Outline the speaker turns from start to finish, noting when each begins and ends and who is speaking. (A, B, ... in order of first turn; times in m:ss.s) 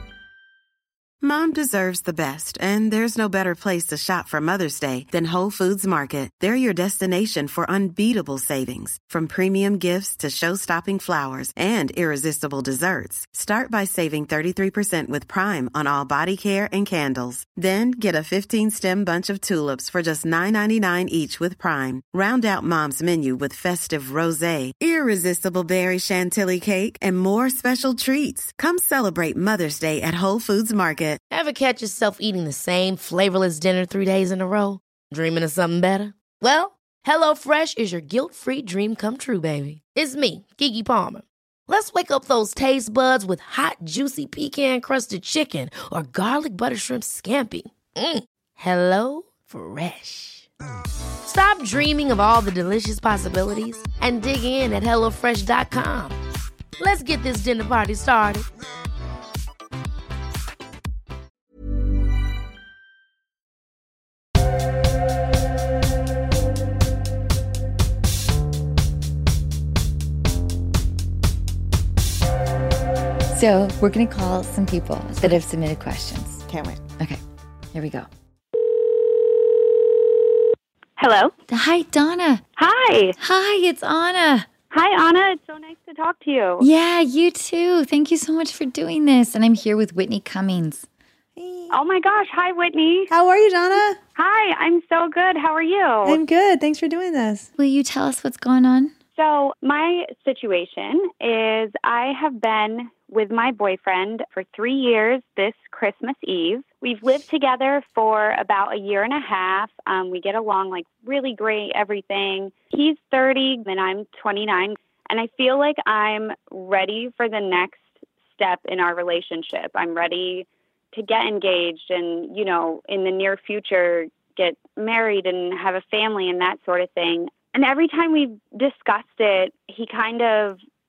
0:01.2-0:31.2 A
0:31.3-0:50.5 B
0:51.2-0:56.2 B
0:56.8-0:58.5 B
1:13.3-1:16.4 C
1:16.5-1:16.8 D
1:17.7-1:18.1 C
1:21.0-1:21.3 E
1:21.5-1:22.4 C
1:22.6-1:23.2 E
1:23.2-1:24.5 C
1:24.7-1:26.7 E
1:26.6-1:30.9 C
1:31.4-1:31.8 D
1:31.7-1:33.1 E
1:33.1-1:34.0 D
1:34.2-1:36.2 E
1:36.0-1:37.5 D
1:37.6-1:38.9 C
1:39.2-2:10.6 E